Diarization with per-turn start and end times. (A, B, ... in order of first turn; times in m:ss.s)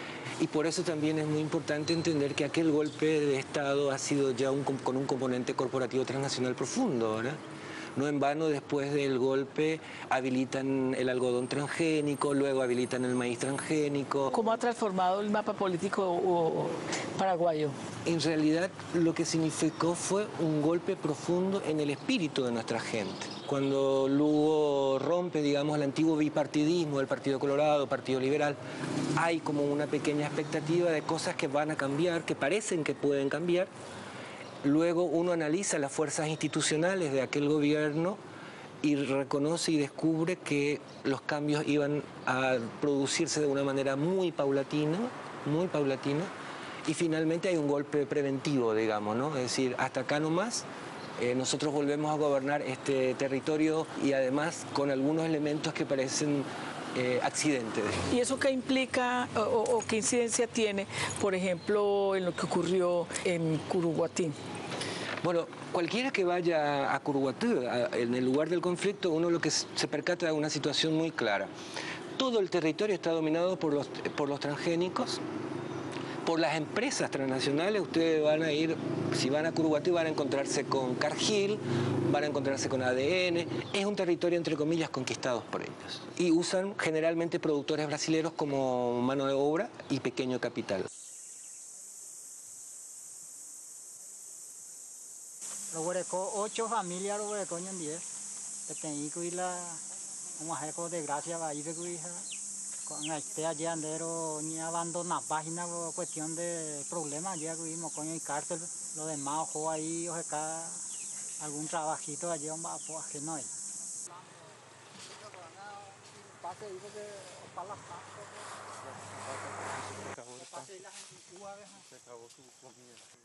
0:00.4-0:07.4 A
0:08.0-0:14.3 A
0:14.3-0:17.8 B
0:18.1-0:28.6 A
0:29.2-0:33.7 A
0:34.6-0:38.2 A
0:38.8-0:46.3 A
0:46.8-0:50.7 A
0:51.2-0:58.0 A
0:58.1-1:04.4 B
1:05.2-1:11.5 A
1:12.2-1:15.2 A
1:16.2-1:30.9 A
1:35.7-1:38.1 C
1:38.7-1:39.8 C
1:40.4-1:42.3 C
1:42.9-1:50.8 C
1:51.4-1:53.5 C
1:55.1-2:01.9 C